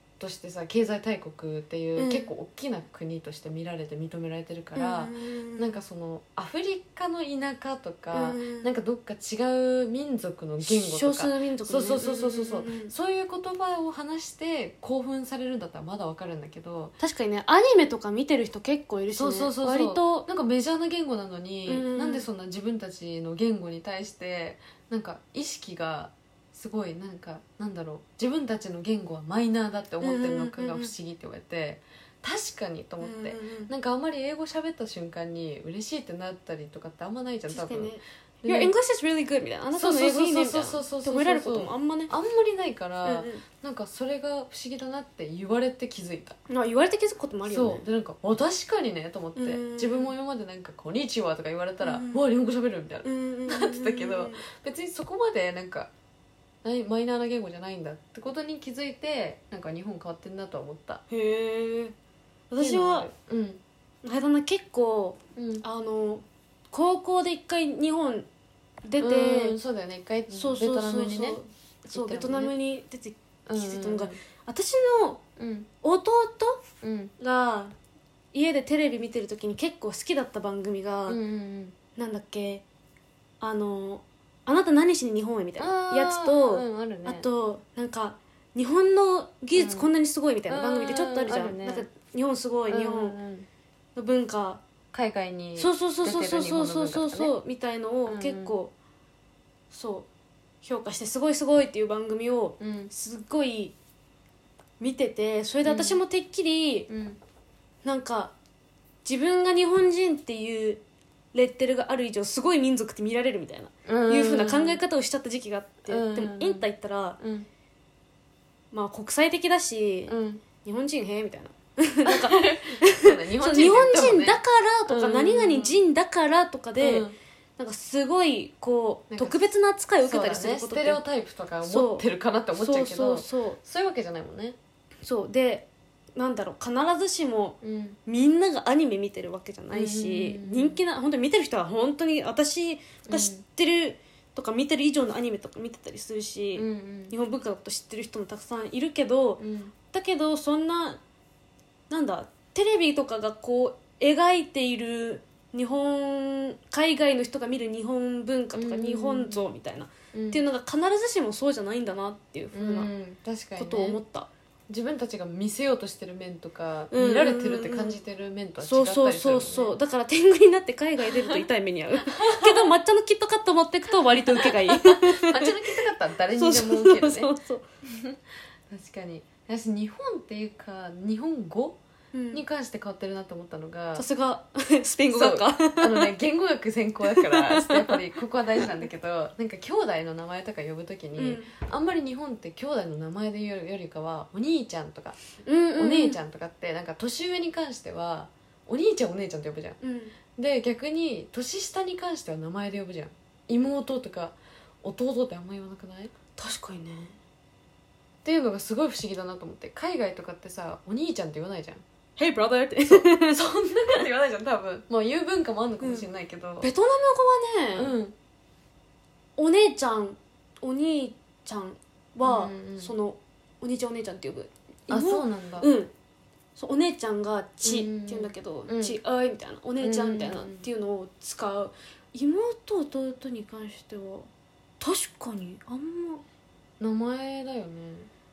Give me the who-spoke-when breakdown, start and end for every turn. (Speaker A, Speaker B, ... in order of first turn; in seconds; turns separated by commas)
Speaker A: 0.2-16.9, Speaker B: 2.0-2.3, Speaker B: 4.7-5.8, Speaker B: 8.1-8.7, Speaker B: 10.6-12.9, Speaker B: 17.0-20.2, Speaker A: 19.1-38.7, Speaker B: 21.7-22.2, Speaker B: 30.0-30.9, Speaker B: 33.0-33.7, Speaker B: 37.5-42.1, Speaker A: 39.7-46.4, Speaker B: 43.0-43.4, Speaker B: 46.5-47.8, Speaker A: 47.5-55.9, Speaker B: 49.4-50.1, Speaker B: 51.8-52.2, Speaker B: 53.0-54.4, Speaker A: 56.6-61.0, Speaker B: 61.1-61.9, Speaker B: 62.5-63.1, Speaker A: 62.6-63.6, Speaker B: 64.0-68.3, Speaker A: 65.3-65.6, Speaker B: 68.8-69.6, Speaker A: 69.0-71.4, Speaker B: 70.3-75.2, Speaker A: 71.9-72.5, Speaker A: 73.5-74.2, Speaker A: 75.4-75.7, Speaker B: 75.8-76.6, Speaker A: 76.8-77.1, Speaker B: 77.2-77.7, Speaker B: 78.3-81.2, Speaker A: 81.1-81.8, Speaker B: 82.0-82.6, Speaker B: 83.4-93.2, Speaker A: 85.6-87.2, Speaker A: 89.5-89.9, Speaker A: 90.5-91.9, Speaker A: 92.7-93.5, Speaker B: 93.9-94.6, Speaker A: 94.9-97.3, Speaker B: 95.6-98.7, Speaker A: 98.1-98.6, Speaker B: 99.7-100.1, Speaker B: 100.6-103.7, Speaker A: 102.6-102.9, Speaker B: 104.8-106.9, Speaker A: 105.6-106.0, Speaker A: 106.9-107.2, Speaker B: 107.8-108.3, Speaker B: 109.0-117.2, Speaker A: 113.8-114.8, Speaker A: 115.9-116.7, Speaker A: 117.2-117.5, Speaker B: 118.7-127.1, Speaker A: 120.1-120.4, Speaker A: 122.0-125.8, Speaker A: 126.8-127.2, Speaker B: 127.6-131.0, Speaker A: 129.1-134.6, Speaker B: 131.7-133.6, Speaker B: 135.0-151.0, Speaker A: 137.6-138.0, Speaker A: 139.7-140.8, Speaker A: 143.1-143.4, Speaker A: 146.5-147.1, Speaker A: 149.4-149.7, Speaker B: 151.9-162.9, Speaker A: 158.5-159.5, Speaker A: 160.1-160.4, Speaker A: 162.5-164.0, Speaker B: 163.6-164.3, Speaker A: 164.7-169.8, Speaker B: 166.9-168.0, Speaker B: 168.6-175.5, Speaker A: 172.1-172.7, Speaker A: 174.0-177.3, Speaker B: 176.3-177.6, Speaker A: 177.8-178.2, Speaker A: 178.7-181.8, Speaker B: 182.1-182.4, Speaker A: 182.3-184.1, Speaker B: 183.9-186.1, Speaker A: 185.1-195.2, Speaker B: 187.0-188.1, Speaker B: 191.2-191.5, Speaker B: 195.4-196.2, Speaker A: 195.8-199.8, Speaker B: 199.8-200.1, Speaker A: 200.3-206.1, Speaker B: 206.3-207.2, Speaker A: 208.2-211.8, Speaker B: 212.2-213.4, Speaker A: 212.9-216.7, Speaker B: 215.8-216.1, Speaker B: 216.6-217.9, Speaker A: 217.8-218.1, Speaker B: 219.4-225.9, Speaker A: 222.2-222.9, Speaker A: 224.9-225.7, Speaker B: 226.6-234.3, Speaker A: 227.6-229.0, Speaker A: 229.8-230.7, Speaker B: 234.8-236.2, Speaker A: 236.8-238.1